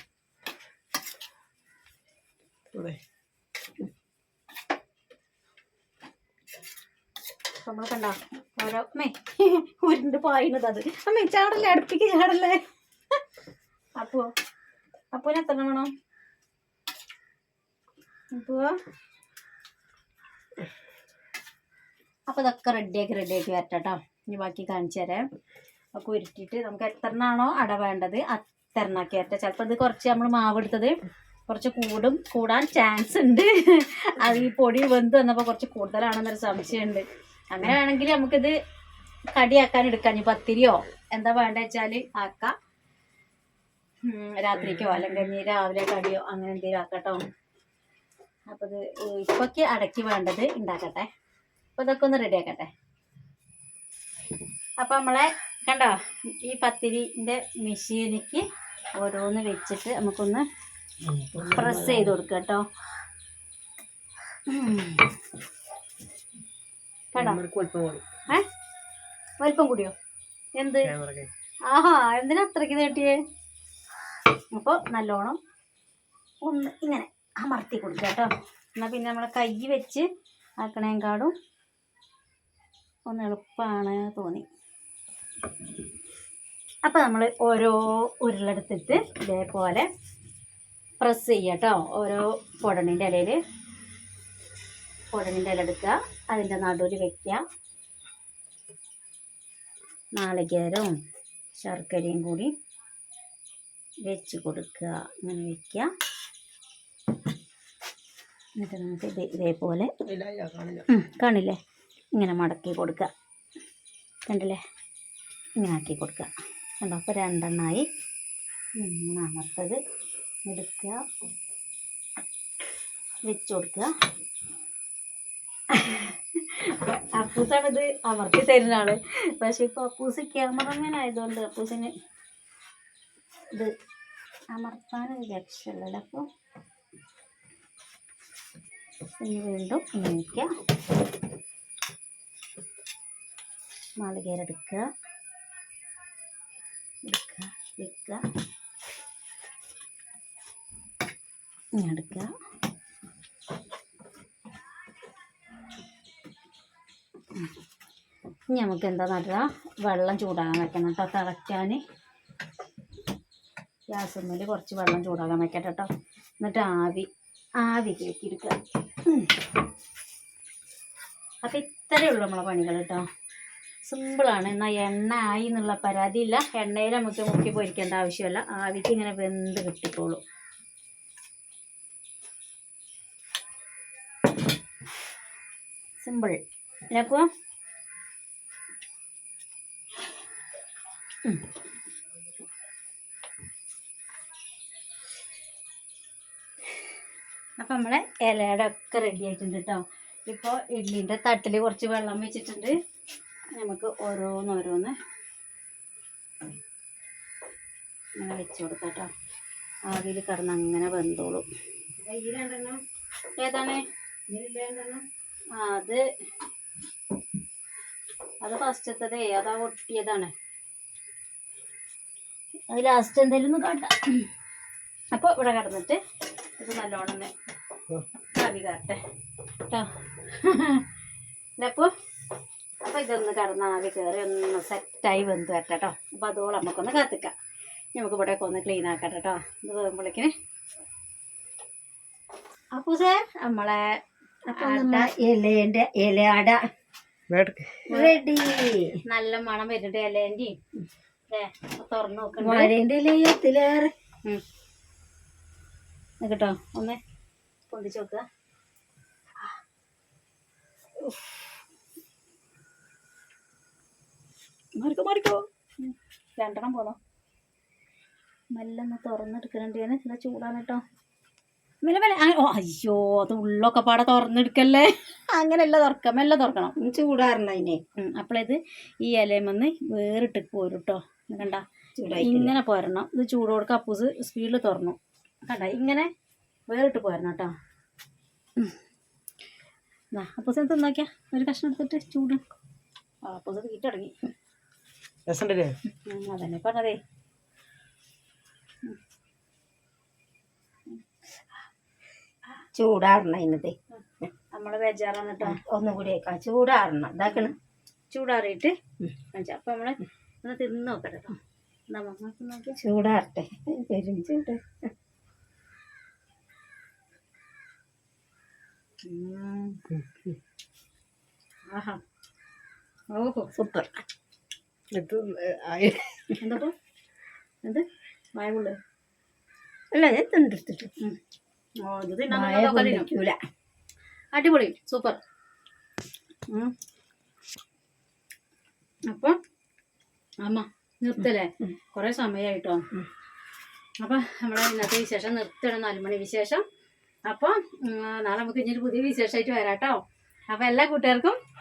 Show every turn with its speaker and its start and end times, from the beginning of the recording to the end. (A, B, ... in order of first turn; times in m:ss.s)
0:02.7-0:03.0 A
0:07.6-0:12.6 B
0:14.0-0:14.3 B
0:15.1-0:15.9 B
0:18.3-0:18.7 B
0:22.3-0:25.2 B
0:26.0-0:30.9 B
0:31.5-0:38.5 B
0:39.3-0:42.5 B
0:44.1-0:47.2 B
0:48.5-0:51.1 B
0:51.8-0:52.7 B
0:54.8-0:58.4 B
0:59.0-1:00.4 B
1:01.0-1:01.8 A
1:01.4-1:02.1 C
1:01.5-1:02.6 B
1:04.5-1:05.1 B
1:07.1-1:07.4 B
1:07.2-1:08.0 A
1:09.4-1:09.9 B
1:10.6-1:10.9 B
1:10.9-1:11.3 A
1:11.7-1:13.2 B
1:14.5-1:15.4 B
1:16.4-1:20.1 B
1:20.6-1:21.3 B
1:23.1-1:24.5 B
1:26.8-1:29.9 B
1:31.0-1:33.4 B
1:35.1-1:37.4 B
1:40.2-1:40.9 B
1:41.6-1:42.5 B
1:44.1-1:45.9 B
1:48.6-1:49.9 B
1:50.0-1:50.9 A
1:50.9-1:51.6 B
1:52.2-1:53.1 B
1:54.3-1:54.6 B
1:55.6-1:57.9 B
1:58.8-1:59.8 B
2:00.5-2:01.0 B
2:03.2-2:03.9 B
2:05.7-2:11.9 B
2:14.5-2:16.2 B
2:19.2-2:20.5 B
2:24.0-2:24.8 B
2:27.1-2:28.2 B
2:31.8-2:32.3 B
2:38.5-2:41.8 B
2:43.9-2:45.9 B
2:46.4-2:47.1 B
2:47.6-2:49.3 B
2:51.4-2:53.0 B
2:53.9-3:00.2 B
3:06.0-3:06.4 B
3:06.9-3:07.3 B
3:17.6-3:22.8 B
3:23.5-3:25.0 B
3:28.2-3:29.1 B
3:29.9-3:31.4 B
3:32.0-3:32.8 C
3:33.4-3:33.8 B
3:34.3-3:35.0 C
3:35.5-3:36.0 B
3:38.4-3:40.3 B
3:42.7-3:44.3 B
3:45.1-3:46.0 B
3:46.6-3:47.3 B
3:48.3-3:49.0 B
3:49.7-3:50.8 B
3:51.6-3:51.9 B
3:52.8-3:57.3 B
3:58.0-4:00.3 B
4:02.7-4:03.8 B
4:04.5-4:06.6 C
4:04.5-4:05.1 B
4:07.3-4:07.8 A
4:07.9-4:09.0 C
4:07.9-4:08.2 B
4:09.1-4:10.5 B
4:11.3-4:12.7 B
4:12.4-4:13.9 C
4:16.2-4:17.0 B
4:17.7-4:18.2 B
4:24.8-4:27.0 B
4:28.5-4:30.8 B
4:31.8-4:36.7 B
4:36.8-4:37.8 C
4:38.0-4:41.6 B
4:42.0-4:42.6 C
4:42.2-4:45.0 B
4:45.5-4:46.1 B
4:46.7-4:47.5 B
4:50.1-4:52.4 B
4:53.2-4:54.2 B
4:55.3-4:55.8 A
4:56.0-4:57.0 B
5:02.8-5:04.3 C
5:04.5-5:05.6 B
5:05.4-5:07.6 C
5:08.1-5:08.7 B
5:09.3-5:11.4 B
5:11.9-5:12.8 B
5:12.8-5:14.6 C
5:19.0-5:19.8 B
5:19.9-5:20.3 A
5:21.7-5:22.0 B
5:23.1-5:23.5 B
5:23.6-5:24.0 C
5:24.9-5:26.3 A
5:26.4-5:26.7 B
5:28.4-5:28.8 B
5:29.9-5:30.9 C
5:31.8-5:33.1 B
5:32.3-5:33.4 C
5:34.4-5:35.2 B
5:39.1-5:39.4 B
5:40.4-5:42.8 B
5:44.0-5:46.6 B
5:47.3-5:51.4 B